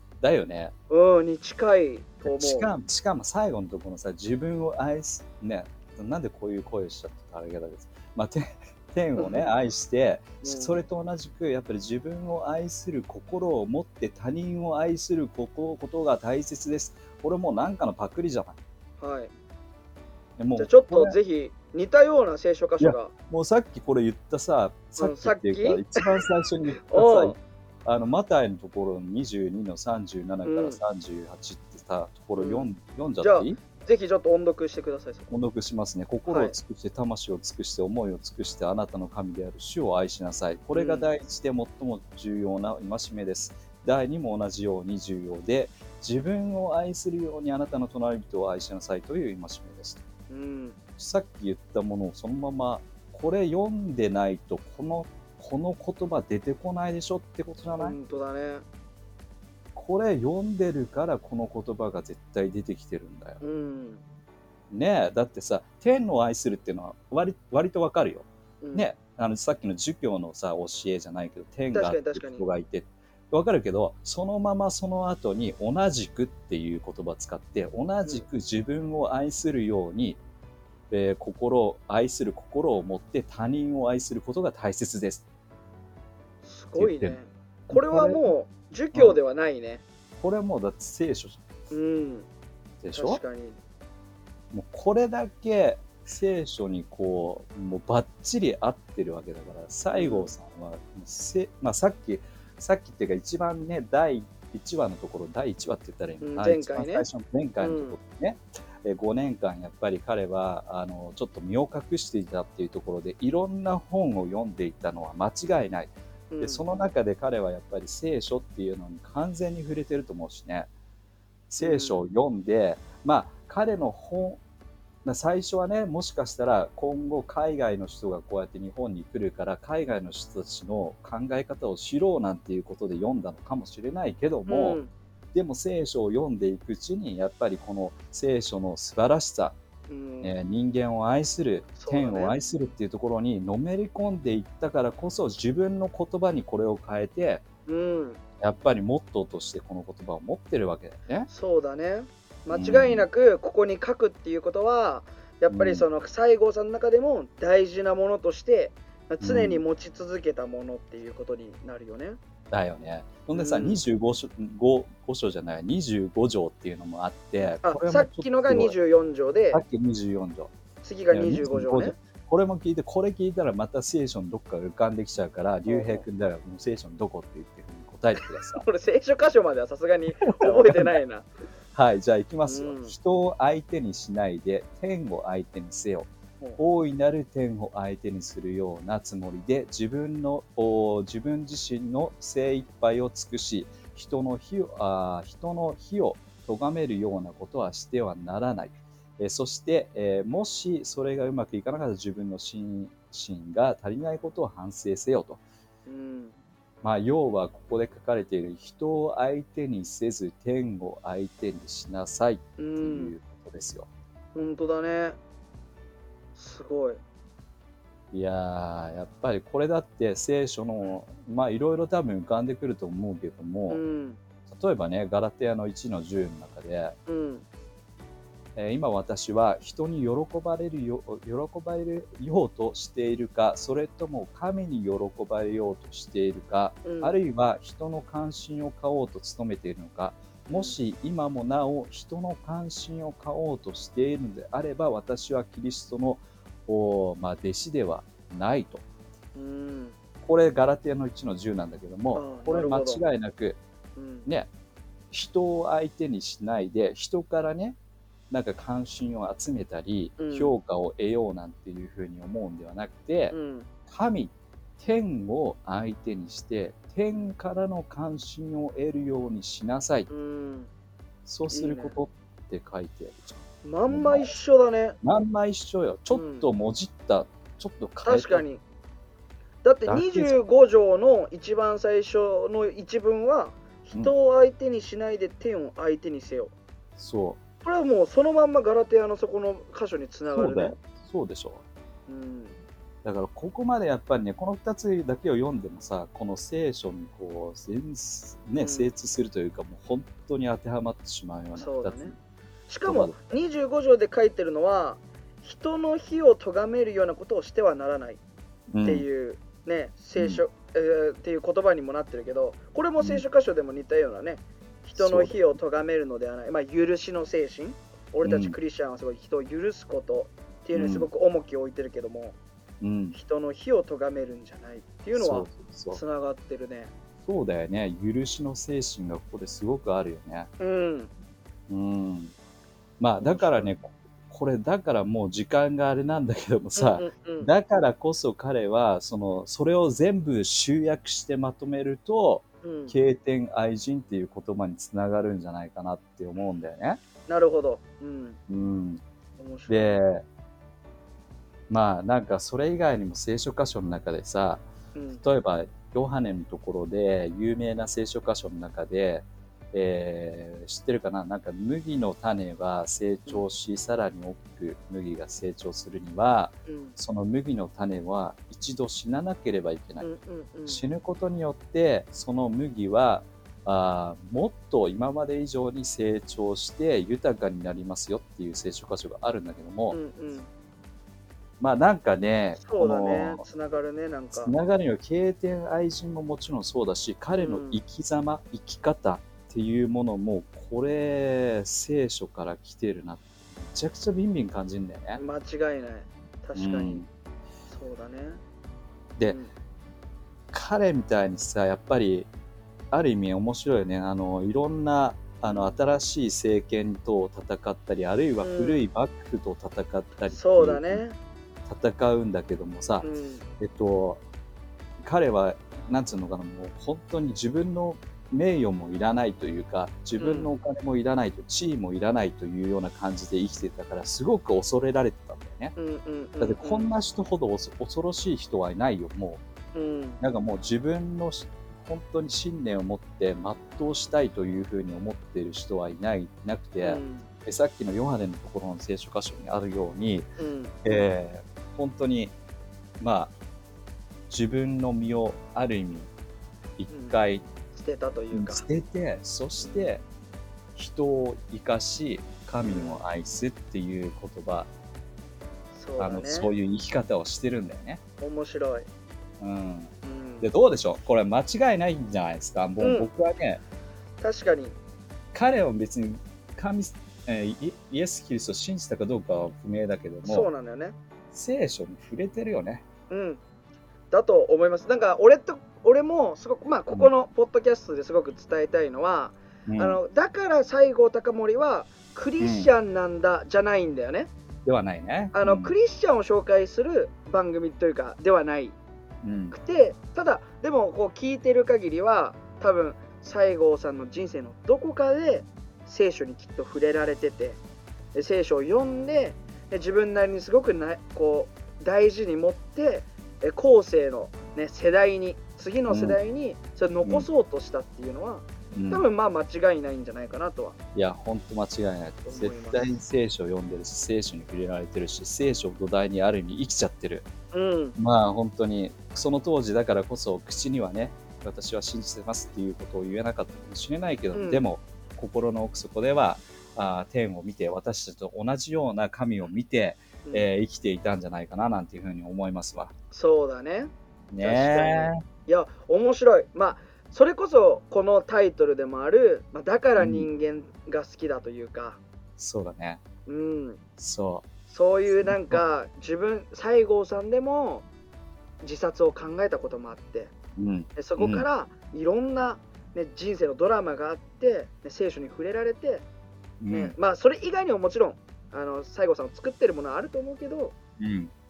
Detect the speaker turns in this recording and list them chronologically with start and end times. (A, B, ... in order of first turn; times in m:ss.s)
0:00.2-0:00.7 A
0:00.9-0:02.7 B
0:02.2-0:18.6 A
0:09.2-0:09.5 B
0:10.4-0:10.8 B
0:19.0-0:19.3 B
0:20.4-0:21.2 A
0:20.5-0:23.1 B
0:22.8-0:33.6 A
0:25.0-0:26.1 B
0:26.8-0:27.4 B
0:30.4-0:30.8 B
0:32.4-0:35.3 B
0:35.3-0:50.0 A
0:36.2-0:36.6 B
0:40.7-0:41.1 B
0:50.3-0:50.8 B
0:51.0-0:58.0 A
0:57.8-0:58.6 B
0:59.7-1:03.4 A
1:03.4-1:04.0 B
1:04.7-1:20.2 A
1:08.6-1:08.9 B
1:11.7-1:12.4 B
1:20.9-1:25.2 A
1:26.4-1:29.8 B
1:26.8-1:27.2 A
1:27.7-1:28.3 A
1:28.9-1:29.2 A
1:30.2-1:31.4 A
1:31.7-1:32.3 B
1:32.8-1:33.2 A
1:32.9-1:33.6 B
1:34.5-2:00.7 A
1:39.9-1:40.3 B
1:46.2-1:47.1 B
1:47.6-1:48.0 B
1:56.3-1:56.6 B
2:01.5-2:04.4 A
2:01.6-2:02.0 B
2:05.0-2:14.8 A
2:14.5-2:14.9 B
2:15.3-2:19.6 A
2:19.9-2:20.3 B
2:20.2-2:27.4 A
2:21.8-2:22.4 B
2:27.7-2:28.2 B
2:28.4-2:31.3 A
2:31.3-2:42.2 B
2:32.5-2:33.1 A
2:35.5-2:35.9 A
2:39.2-2:39.6 A
2:42.5-2:48.8 A
2:43.3-2:43.8 B
2:47.6-2:49.6 B
2:49.5-2:50.5 A
2:50.8-2:52.0 B
2:51.1-2:58.6 A
2:55.6-2:56.0 B
2:58.2-3:01.3 B
3:00.4-3:01.0 A
3:01.7-3:25.4 A
3:02.5-3:02.9 B
3:25.9-3:26.4 B
3:26.8-3:33.9 A
3:32.6-3:33.1 B
3:34.4-3:35.2 B
3:36.4-3:37.0 B
3:38.1-3:43.8 A
3:43.7-3:44.2 B
3:44.5-3:47.0 A
3:47.1-3:47.4 B
3:48.6-4:08.8 A
3:56.8-3:57.2 B
4:00.5-4:00.8 B
4:09.4-4:10.0 B
4:10.2-4:13.6 A
4:12.1-4:13.1 B
4:14.0-4:14.3 B
4:15.1-4:17.8 A
4:18.3-4:23.4 A
4:20.2-4:20.6 B
4:23.3-4:23.7 B
4:23.9-4:30.1 A
4:30.1-4:30.7 B
4:31.2-4:34.4 A
4:31.5-4:32.0 B
4:33.6-4:35.0 B
4:35.0-4:38.4 A
4:36.1-4:36.5 B
4:38.0-4:38.6 B
4:39.6-4:46.5 B
4:39.9-4:40.4 A
4:47.0-4:47.4 A
4:47.6-4:50.8 B
4:50.3-4:51.6 A
4:52.1-4:52.6 B
4:53.0-5:02.2 A
4:58.6-4:58.9 B
5:01.6-5:02.1 B
5:02.7-5:08.2 B
5:02.9-5:03.1 A
5:08.7-5:09.1 A
5:08.8-5:22.4 B
5:10.2-5:10.4 A
5:13.0-5:13.2 A
5:14.9-5:15.6 A
5:18.2-5:18.6 A
5:20.7-5:21.1 A
5:22.8-5:23.2 A
5:23.1-5:26.9 B
5:25.1-5:26.0 A
5:27.2-5:30.5 A
5:30.6-5:31.1 B
5:31.7-5:32.3 A
5:33.0-5:47.0 A
5:33.2-5:33.7 B
5:36.8-5:37.5 B
5:42.6-5:43.0 B
5:47.3-5:48.4 B
5:48.5-5:49.0 A
5:49.4-5:50.0 B
5:49.7-5:50.2 A
5:51.7-5:54.6 A
5:54.9-5:55.2 B
5:55.2-6:10.1 A
6:06.6-6:07.0 B
6:10.0-6:10.8 B
6:10.7-6:20.0 A
6:19.9-6:20.5 B
6:21.6-6:23.4 A
6:22.6-6:24.5 B
6:24.3-6:35.2 A
6:27.4-6:27.8 B
6:35.2-6:37.0 B
6:36.6-6:37.1 A
6:37.7-6:38.4 B
6:39.2-6:39.5 B
6:40.5-6:42.3 A
6:42.9-6:51.0 A
6:45.4-6:45.8 B
6:48.4-6:48.8 B
6:50.3-6:51.2 B
6:51.6-6:53.1 A
6:53.0-6:53.4 B
6:53.6-6:54.2 A
6:55.0-7:05.8 A
7:00.2-7:00.5 B
7:05.8-7:06.9 B
7:06.4-7:09.4 A
7:09.7-7:10.2 B
7:10.2-7:20.3 A
7:16.8-7:17.3 B
7:20.4-7:21.0 B
7:20.8-7:22.3 A
7:23.0-7:23.3 A
7:24.3-7:26.1 A
7:26.8-7:27.4 A
7:26.9-7:27.2 B
7:27.7-7:28.6 B
7:28.3-7:30.0 A
7:29.6-7:29.9 B
7:30.7-7:34.7 A
7:32.6-7:33.0 B
7:35.7-7:36.5 B
7:36.0-7:38.0 A
7:38.2-7:38.9 B
7:39.4-7:43.6 A
7:40.0-7:40.5 B
7:42.8-7:43.1 B
7:44.2-7:44.8 B
7:45.3-7:50.5 A
7:50.2-7:51.0 B
7:51.3-7:52.9 A
7:53.1-7:53.4 B
7:54.1-8:04.3 B
7:59.7-8:00.0 A
8:02.4-8:02.7 A
8:04.6-8:05.7 A
8:05.3-8:08.8 B
8:09.2-8:09.6 A
8:09.5-8:17.6 B
8:18.1-8:30.8 B
8:25.9-8:26.2 A
8:28.7-8:29.1 A
8:30.9-8:37.3 A
8:32.2-8:32.9 B
8:37.5-8:38.0 B
8:38.0-8:52.9 A
8:44.3-8:44.6 B
8:53.1-9:02.0 B
8:54.3-8:55.2 A
9:00.0-9:00.3 A
9:02.4-9:03.0 A
9:03.3-9:03.8 B
9:04.0-9:04.5 A
9:04.7-9:07.9 B
9:05.0-9:05.6 A
9:08.6-9:10.3 B
9:10.6-9:11.4 A
9:11.0-9:16.0 B
9:16.6-9:16.9 A
9:16.7-9:20.7 B
9:21.0-9:21.3 A